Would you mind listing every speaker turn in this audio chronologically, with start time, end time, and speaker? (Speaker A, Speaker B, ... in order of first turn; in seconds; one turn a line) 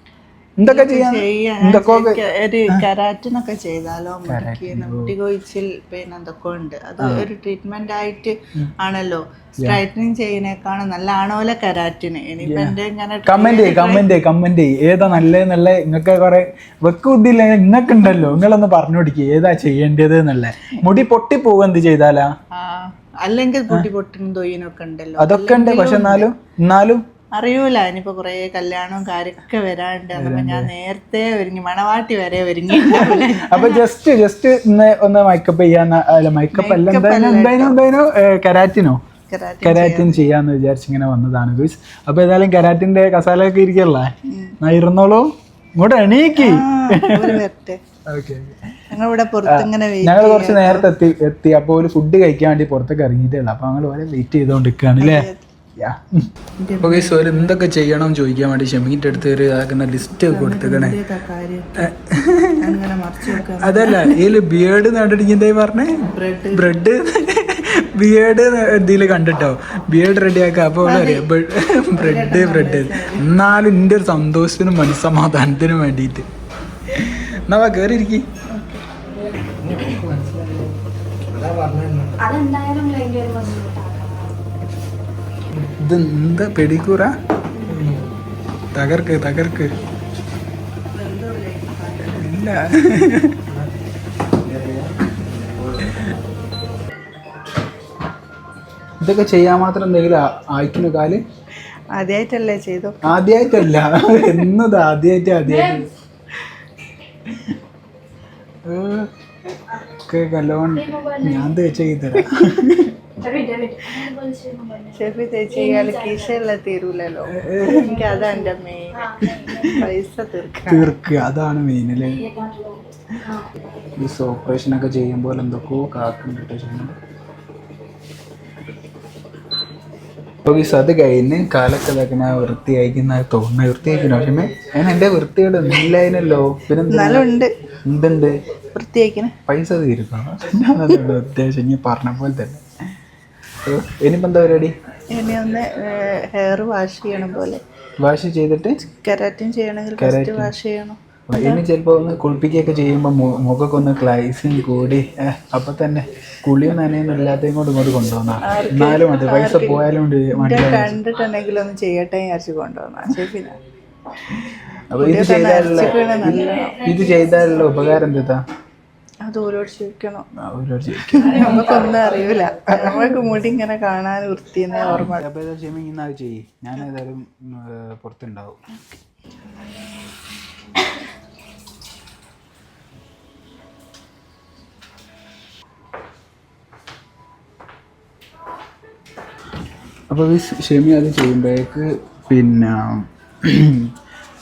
Speaker A: 0.6-2.8
Speaker B: 0.6-14.1
Speaker A: 4.3-5.1
Speaker A: 7.0-7.3
Speaker A: 12.4-12.7
Speaker A: 13.3-22.3
Speaker B: 22.5-26.3
Speaker A: 25.2-27.0
Speaker B: 27.3-33.9
Speaker A: 30.1-30.7
Speaker A: 32.8-39.0
Speaker B: 36.5-37.8
Speaker B: 39.3-40.2
Speaker A: 39.6-47.4
Speaker B: 44.3-44.5
Speaker B: 46.4-47.8
Speaker A: 48.1-48.6
Speaker B: 48.9-50.9
Speaker A: 49.5-55.3
Speaker B: 55.0-55.4
Speaker A: 55.8-56.3
Speaker B: 56.6-57.5
Speaker A: 56.8-61.0
Speaker B: 60.2-61.9
Speaker A: 61.8-62.8
Speaker B: 62.6-64.3
Speaker A: 63.5-76.3
Speaker B: 66.0-66.8
Speaker B: 70.8-71.3
Speaker B: 71.9-73.3
Speaker A: 76.9-78.3
Speaker B: 78.5-79.0
Speaker C: 82.2-84.2
Speaker A: 85.5-87.1
Speaker A: 88.7-89.7
Speaker B: 90.9-92.5
Speaker A: 92.2-93.6
Speaker A: 99.0-101.2
Speaker B: 101.9-104.5
Speaker A: 103.1-105.9
Speaker A: 108.7-109.1
Speaker A: 109.7-113.0
Speaker C: 113.2-115.1
Speaker B: 114.9-121.0
Speaker C: 115.7-116.2
Speaker A: 117.3-118.0
Speaker A: 119.2-119.9
Speaker A: 120.7-122.4
Speaker C: 122.3-122.8
Speaker A: 124.0-127.0
Speaker A: 130.5-137.2
Speaker B: 136.9-137.5
Speaker A: 137.8-138.4
Speaker B: 138.7-139.3
Speaker A: 139.5-142.6
Speaker A: 143.6-144.8
Speaker B: 145.1-147.6
Speaker A: 148.0-148.8
Speaker B: 148.8-151.6
Speaker A: 150.0-150.5
Speaker A: 151.3-160.9
Speaker B: 158.4-163.6
Speaker A: 164.9-168.4
Speaker B: 165.0-167.0
Speaker B: 169.2-170.3
Speaker A: 170.4-171.6
Speaker B: 171.0-175.2
Speaker A: 174.9-178.6
Speaker A: 190.1-193.9